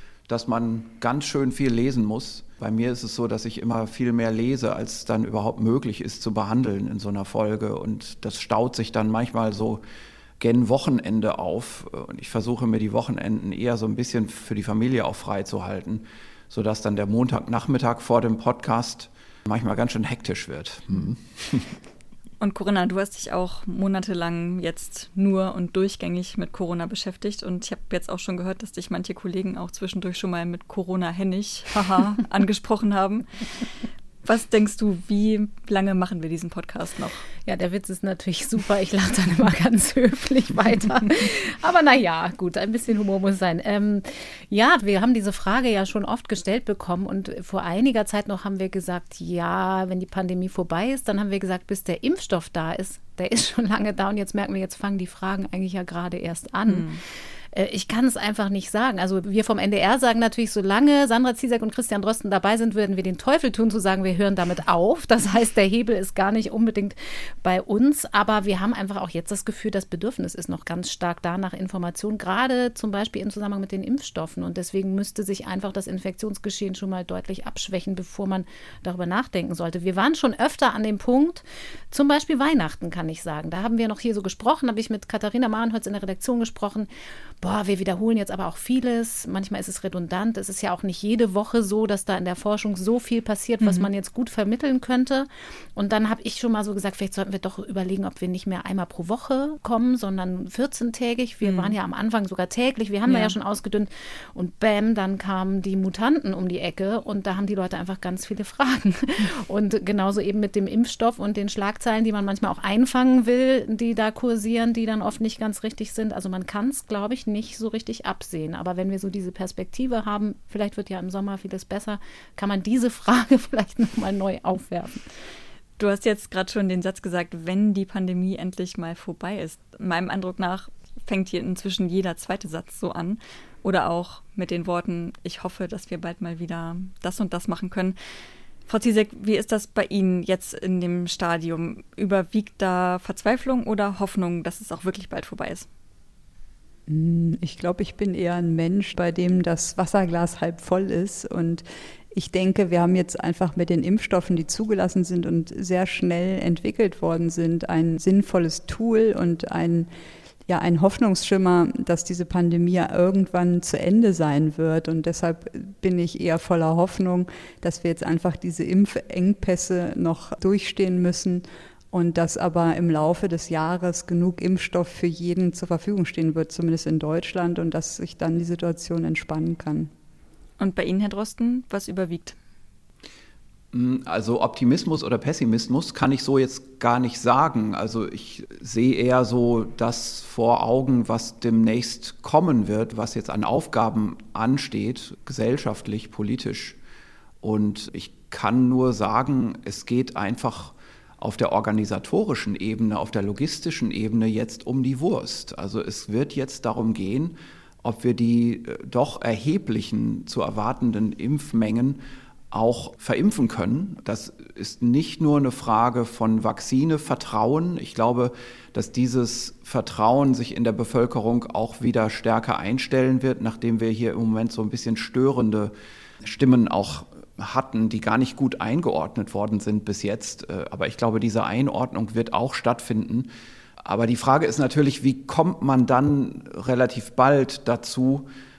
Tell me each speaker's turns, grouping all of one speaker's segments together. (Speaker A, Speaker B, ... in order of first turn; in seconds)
Speaker A: 0.3-9.8, 10.4-21.7, 183.7-196.8, 197.4-225.7, 226.2-233.3, 233.8-238.3
Speaker B: 22.4-33.6, 34.2-37.2, 56.7-57.0, 93.6-93.9, 101.4-101.8, 103.1-103.3, 125.8-138.0, 138.7-145.7, 180.6-182.4
Speaker C: 37.5-57.0, 57.5-86.9, 87.4-125.0
Speaker D: 146.9-159.9, 160.5-179.9